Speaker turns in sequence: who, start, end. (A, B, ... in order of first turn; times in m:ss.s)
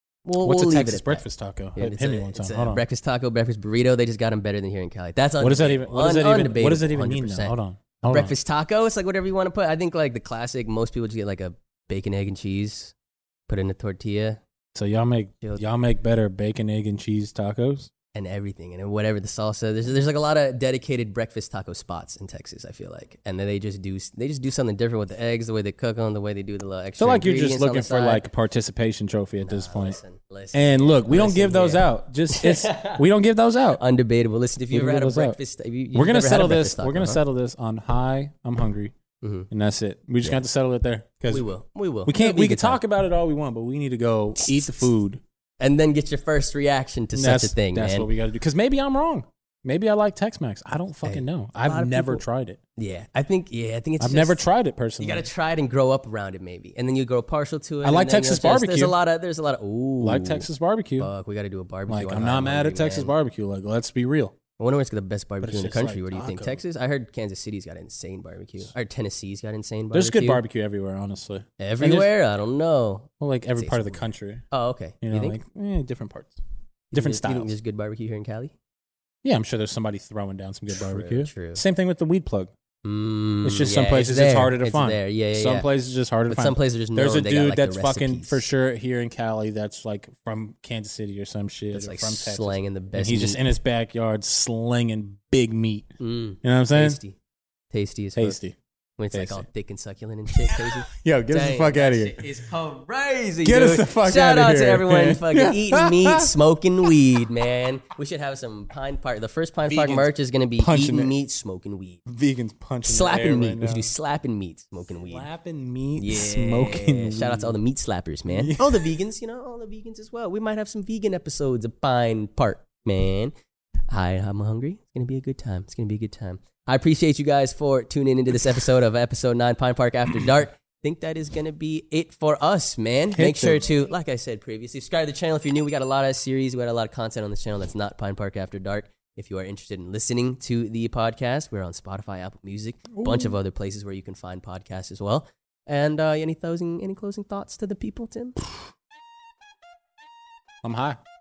0:00.2-0:07.6 A
0:00.4-0:02.8 B
0:05.4-0:08.4 B
0:08.1-0:12.9 A
0:13.5-0:14.4 A
0:14.7-0:17.9 B
0:18.1-0:28.2 A
0:27.0-0:30.0 B
0:29.4-0:33.0 A
0:30.5-0:33.8 B
0:33.8-0:37.2 A
0:34.7-0:35.4 B
0:35.9-0:38.9 B
0:39.2-0:39.5 A
0:39.5-0:41.5 B
0:41.3-0:42.8 A
0:42.0-0:45.2 B
0:45.6-0:48.1 A
0:47.1-0:52.6 B
0:51.0-0:52.2 A
0:52.8-0:54.4 A
0:54.0-0:55.3 B
0:55.0-1:00.5 A
0:57.8-0:59.0 B
1:00.0-1:01.1 B
1:01.0-1:03.1 A
1:01.9-1:04.4 B
1:04.6-1:10.4 A
1:05.4-1:06.6 B
1:09.9-1:12.1 B
1:11.6-1:15.4 A
1:13.2-1:14.4 B
1:15.0-1:16.4 B
1:16.9-1:18.5 A
1:16.9-1:17.5 B
1:19.2-1:22.5 B
1:20.8-1:21.6 A
1:22.8-1:25.7 A
1:23.4-1:37.0 B
1:26.3-1:28.4 A
1:31.7-1:33.4 A
1:36.0-1:37.2 A
1:37.7-1:38.4 A
1:38.2-1:38.6 B
1:39.0-1:52.0 A
1:39.1-1:39.5 B
1:40.4-1:42.2 B
1:43.4-1:46.4 B
1:49.6-1:51.1 B
1:52.0-1:53.9 B
1:52.8-1:55.3 A
1:55.0-1:57.6 B
1:56.0-2:03.3 A
1:58.3-1:59.0 B
2:03.9-2:28.6 A
2:13.1-2:13.9 B
2:22.9-2:23.4 B
2:30.6-2:31.0 B